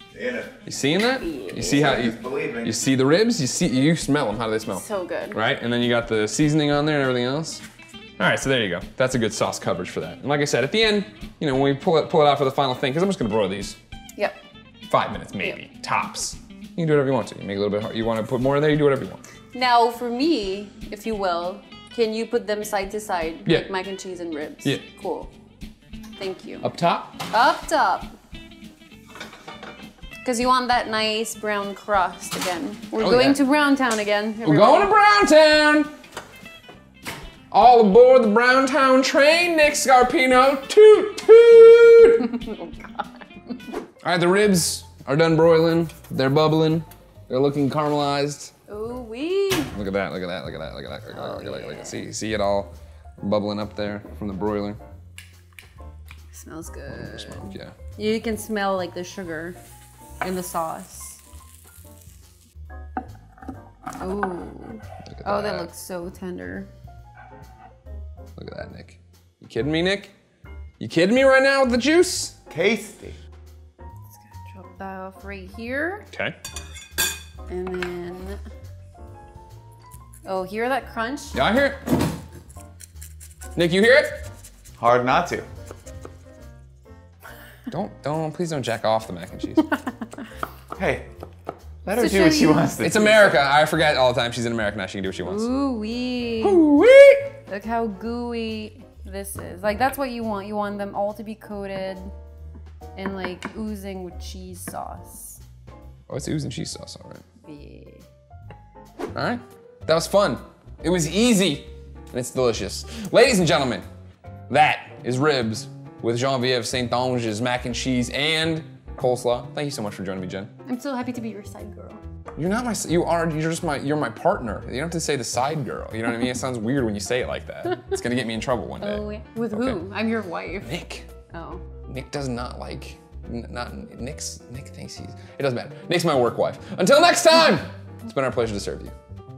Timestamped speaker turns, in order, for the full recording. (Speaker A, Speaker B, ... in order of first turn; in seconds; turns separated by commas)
Speaker A: 0.1-0.6, Speaker B: 0.7-7.6, Speaker C: 1.2-2.1, Speaker A: 1.6-2.8, Speaker C: 4.7-5.4, Speaker B: 8.2-13.8, Speaker B: 14.9-19.2, Speaker C: 19.5-25.3, Speaker C: 26.2-26.7, Speaker B: 26.6-27.2, Speaker C: 27.3-28.1, Speaker C: 30.2-34.9, Speaker B: 33.0-33.4, Speaker B: 34.4-35.9, Speaker B: 37.5-42.3, Speaker C: 42.2-43.6, Speaker B: 44.0-48.5, Speaker C: 48.7-49.7, Speaker B: 49.7-54.8, Speaker C: 51.1-52.0, Speaker C: 56.3-59.6, Speaker B: 56.9-57.7, Speaker C: 60.2-61.2, Speaker C: 64.0-66.7, Speaker B: 65.1-65.7, Speaker B: 68.4-70.1, Speaker B: 70.8-72.3, Speaker A: 72.5-73.2, Speaker C: 74.2-76.1, Speaker C: 77.5-78.4, Speaker C: 80.2-81.4, Speaker B: 81.3-81.8, Speaker B: 83.5-84.2, Speaker A: 84.8-85.5, Speaker B: 87.7-89.7, Speaker A: 90.8-91.1, Speaker A: 91.8-93.4, Speaker C: 91.9-92.7, Speaker B: 92.8-95.5, Speaker C: 95.2-96.6, Speaker B: 96.4-97.3, Speaker C: 97.5-102.1, Speaker C: 103.0-105.4, Speaker B: 106.1-107.2, Speaker C: 107.4-108.0, Speaker B: 109.1-113.8, Speaker B: 114.5-120.5, Speaker C: 120.7-122.0, Speaker B: 122.4-129.0, Speaker C: 128.8-130.7, Speaker B: 129.5-129.8, Speaker B: 130.6-131.1, Speaker C: 131.3-131.7, Speaker B: 131.9-138.9